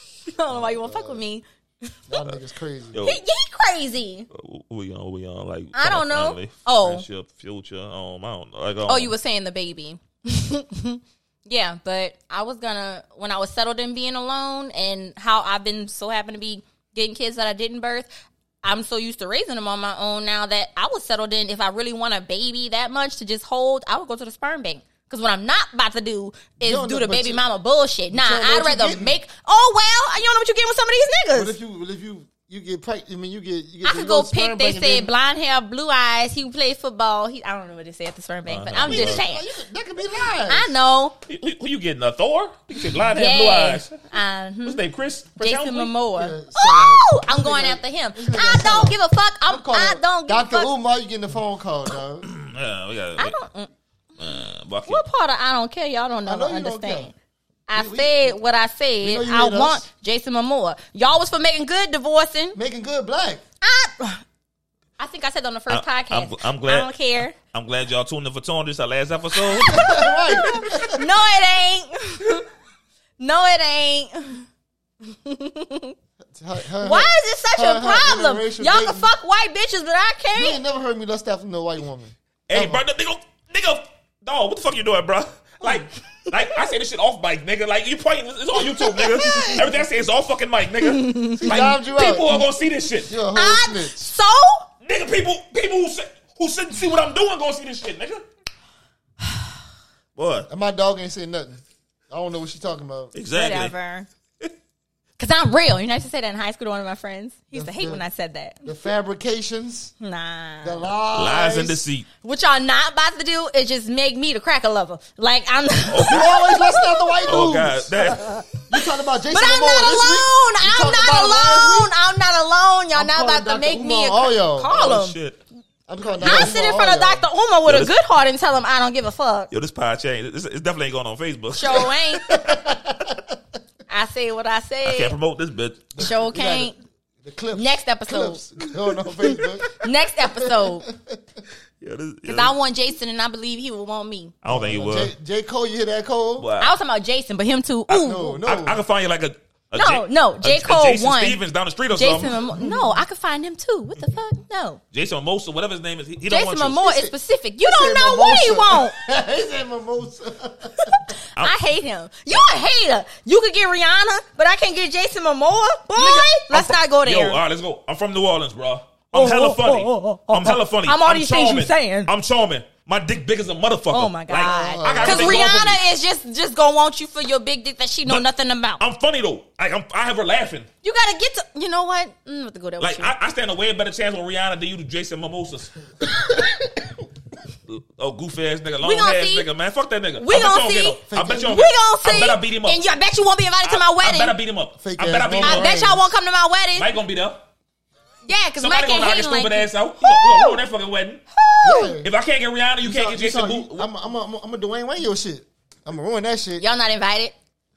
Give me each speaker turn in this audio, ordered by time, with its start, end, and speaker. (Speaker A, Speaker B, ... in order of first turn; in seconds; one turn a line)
Speaker A: 0.3-1.9
Speaker B: 0.5-1.2
Speaker B: 2.1-3.0
Speaker C: 2.9-3.2
Speaker A: 3.0-4.3
Speaker C: 4.3-9.1
Speaker A: 5.8-7.0
Speaker A: 8.9-18.1
Speaker A: 18.6-31.6
Speaker B: 26.6-27.4
Speaker B: 28.1-29.2
Speaker B: 31.3-35.1
Speaker A: 33.8-39.5
Speaker C: 38.5-39.2
Speaker B: 38.8-40.8
Speaker A: 40.5-41.2
Speaker C: 41.3-44.0
Speaker A: 43.1-44.8
Speaker C: 44.6-45.9
Speaker A: 45.4-50.7
Speaker B: 46.1-49.0
Speaker B: 49.5-52.3
Speaker C: 52.2-53.4
Speaker A: 53.2-53.7
Speaker C: 54.2-55.0
Speaker A: 54.9-57.1
Speaker B: 56.3-57.1
Speaker A: 57.7-62.6
Speaker B: 57.7-58.4
Speaker B: 59.0-59.8
Speaker B: 62.5-63.4
Speaker A: 63.6-64.2
Speaker A: 65.0-67.4
Speaker C: 65.7-69.9
Speaker A: 69.5-72.5
Speaker B: 69.7-71.0
Speaker A: 73.2-74.5
Speaker A: 75.0-75.9
Speaker B: 76.2-79.1
Speaker A: 76.8-80.6
Speaker B: 80.3-82.8
Speaker C: 82.5-93.1
Speaker B: 88.9-89.7
Speaker A: 90.8-91.4
Speaker B: 91.3-92.5
Speaker B: 93.0-94.1
Speaker A: 93.3-94.7
Speaker C: 94.8-98.3
Speaker C: 100.2-100.5
Speaker B: 100.5-103.1
Speaker C: 103.1-103.7
Speaker A: 103.3-104.1
Speaker A: 105.2-108.7
Speaker B: 107.5-108.0
Speaker B: 108.7-109.9
Speaker A: 110.0-110.9
Speaker B: 110.6-111.8
Speaker C: 111.2-112.1
Speaker A: 112.2-117.2
Speaker C: 115.9-116.2
Speaker B: 116.0-121.9
Speaker C: 117.3-118.4
Speaker A: 119.3-125.2
Speaker B: 122.9-124.7
Speaker C: 124.7-125.4
Speaker B: 125.9-127.3
Speaker A: 126.2-129.5
Speaker C: 126.2-126.5
Speaker C: 127.7-127.9
Speaker C: 129.5-131.9
Speaker A: 131.6-132.4
Speaker B: 132.3-133.3
Speaker A: 133.9-135.1
Speaker C: 134.8-136.0
Speaker B: 136.0-139.7
Speaker A: 136.0-136.8
Speaker A: 137.5-138.4
Speaker A: 139.8-140.9
Speaker B: 140.4-141.2
Speaker C: 141.8-142.5
Speaker A: 142.3-144.3
Speaker C: 144.4-145.1
Speaker B: 144.5-146.5
Speaker C: 146.4-146.7
Speaker A: 146.6-148.4
Speaker B: 147.9-148.8
Speaker C: 148.0-152.4
Speaker A: 149.8-151.4
Speaker A: 151.9-154.8
Speaker B: 152.6-152.9
Speaker C: 154.9-156.8
Speaker A: 156.3-159.0
Speaker B: 156.8-157.1
Speaker B: 157.7-161.0
Speaker A: 160.9-167.4
Speaker C: 166.0-175.8
Speaker A: 169.1-172.1
Speaker A: 173.9-178.8
Speaker B: 174.4-175.7
Speaker C: 178.8-180.7
Speaker A: 180.8-183.1
Speaker C: 182.8-185.7
Speaker C: 187.7-192.8
Speaker A: 188.8-189.5
Speaker A: 190.2-194.4
Speaker B: 191.1-191.6
Speaker C: 193.6-195.8
Speaker B: 194.8-196.0
Speaker A: 195.4-196.9
Speaker C: 196.8-197.4
Speaker A: 198.2-200.6
Speaker C: 198.6-201.2
Speaker A: 201.3-202.0
Speaker B: 201.6-202.1
Speaker C: 202.0-203.9
Speaker B: 202.8-206.7
Speaker A: 206.6-207.3